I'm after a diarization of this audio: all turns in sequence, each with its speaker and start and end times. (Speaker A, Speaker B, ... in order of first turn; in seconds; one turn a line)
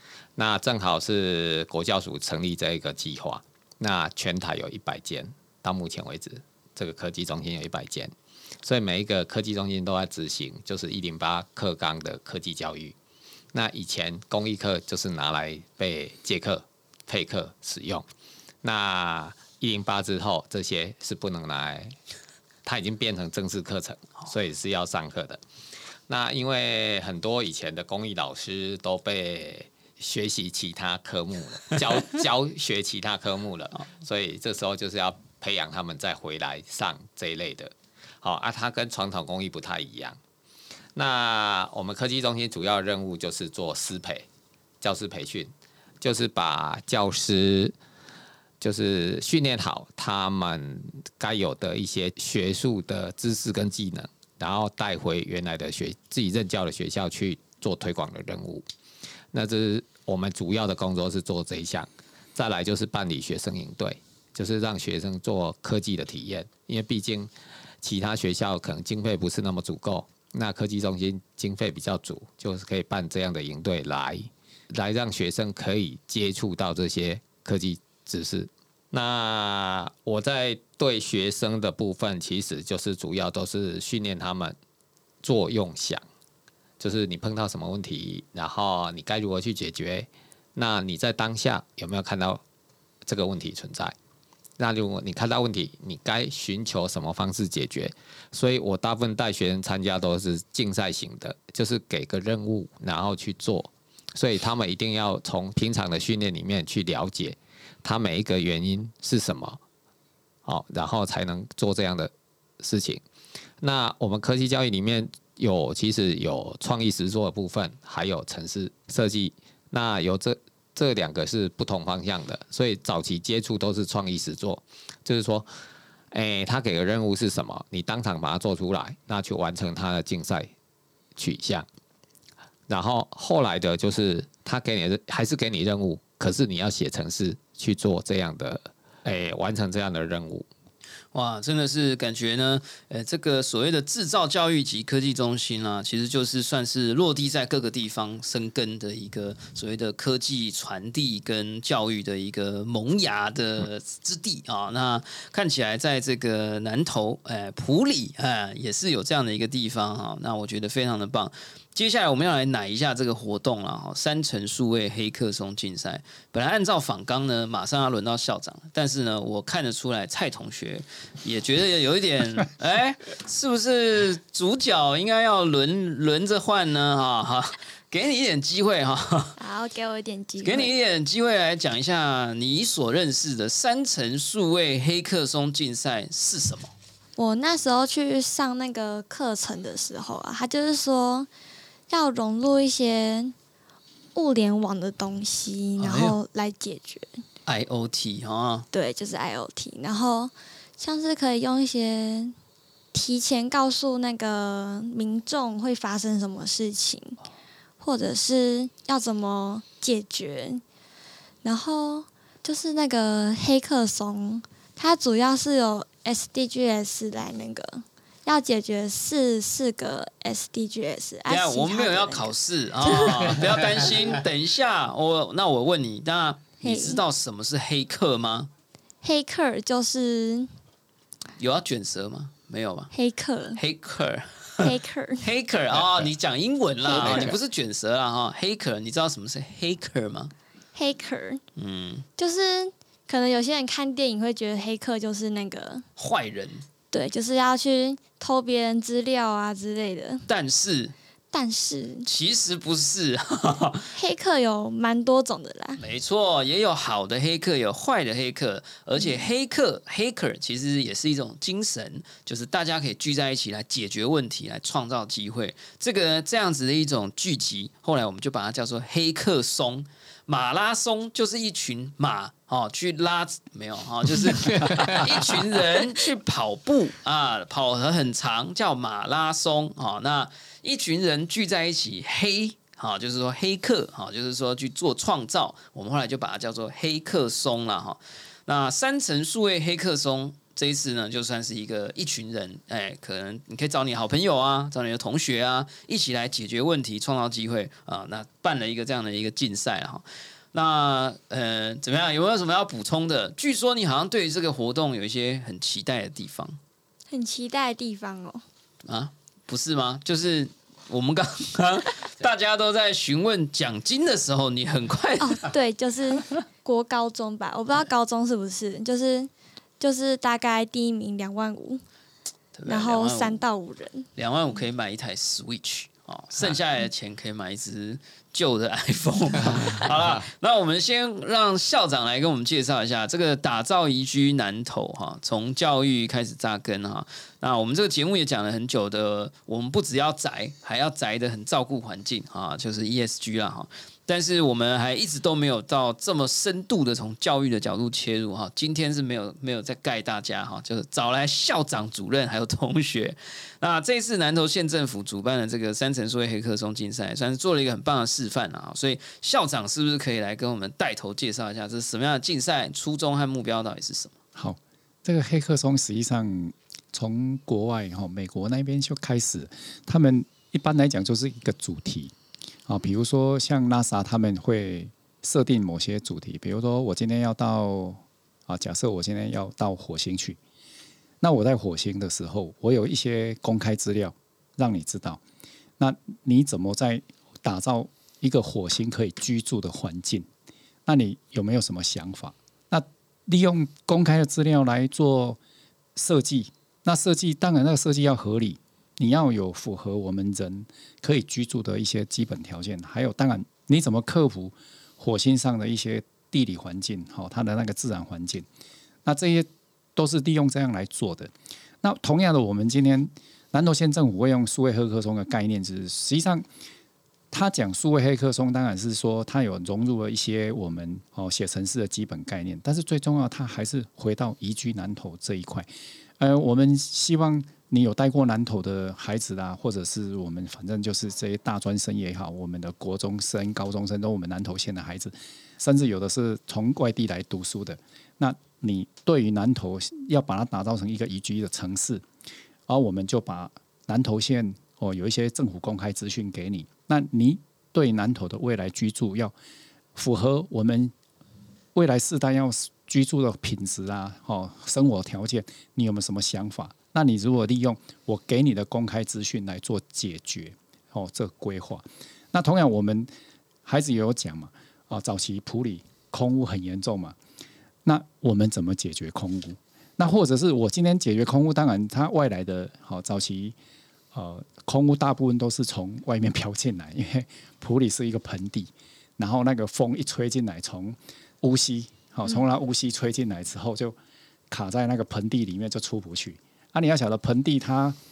Speaker A: 0.3-12.9
Speaker A: 13.5-18.1
Speaker A: 18.6-21.9
Speaker A: 22.6-25.4
Speaker A: 26.1-40.2
Speaker A: 40.9-44.2
Speaker A: 44.8-47.7
Speaker A: 48.6-58.7
Speaker A: 59.3-84.5
Speaker A: 85.2-86.0
Speaker A: 86.8-92.4
Speaker A: 93.0-93.9
Speaker A: 94.6-109.6
Speaker A: 110.4-113.0
Speaker A: 113.6-125.5
Speaker A: 126.1-130.5
Speaker A: 131.2-131.7
Speaker A: 132.7-140.5
Speaker B: 141.1-179.3
Speaker C: 179.4-180.7
Speaker B: 180.4-186.7
Speaker C: 187.2-191.3
Speaker C: 191.9-193.3
Speaker C: 194.1-197.2
Speaker B: 195.8-196.2
Speaker B: 197.4-198.7
Speaker C: 198.7-202.3
Speaker C: 202.9-207.2
Speaker C: 207.8-210.6
Speaker C: 211.4-223.9
Speaker B: 221.3-228.5
Speaker C: 226.6-227.0
Speaker C: 229.0-230.5
Speaker B: 231.4-232.9
Speaker C: 232.9-233.6
Speaker B: 233.5-240.3
Speaker C: 234.6-235.3
Speaker C: 236.8-237.3
Speaker C: 240.7-241.4
Speaker B: 241.6-242.1
Speaker C: 242.2-245.8
Speaker B: 246.0-246.6
Speaker C: 246.9-250.3
Speaker B: 250.3-250.9
Speaker C: 251.3-252.1
Speaker B: 252.1-253.9
Speaker C: 253.9-255.8
Speaker B: 255.8-306.6
Speaker A: 274.5-275.0
Speaker C: 307.1-308.4
Speaker B: 308.9-315.5
Speaker C: 315.2-321.8
Speaker B: 322.5-323.4
Speaker C: 322.6-324.1
Speaker B: 324.2-364.1
Speaker D: 364.4-372.1
Speaker D: 372.7-380.4
Speaker D: 381.2-385.2
Speaker D: 385.8-390.3
Speaker D: 390.9-395.4
Speaker D: 395.9-408.4
Speaker D: 409.0-416.4
Speaker D: 417.3-425.7
Speaker D: 426.2-442.0
Speaker D: 442.7-449.3
Speaker D: 449.9-450.9
Speaker D: 451.7-463.1
Speaker D: 463.6-467.1
Speaker D: 467.8-473.6
Speaker D: 474.1-483.9
Speaker D: 484.5-488.0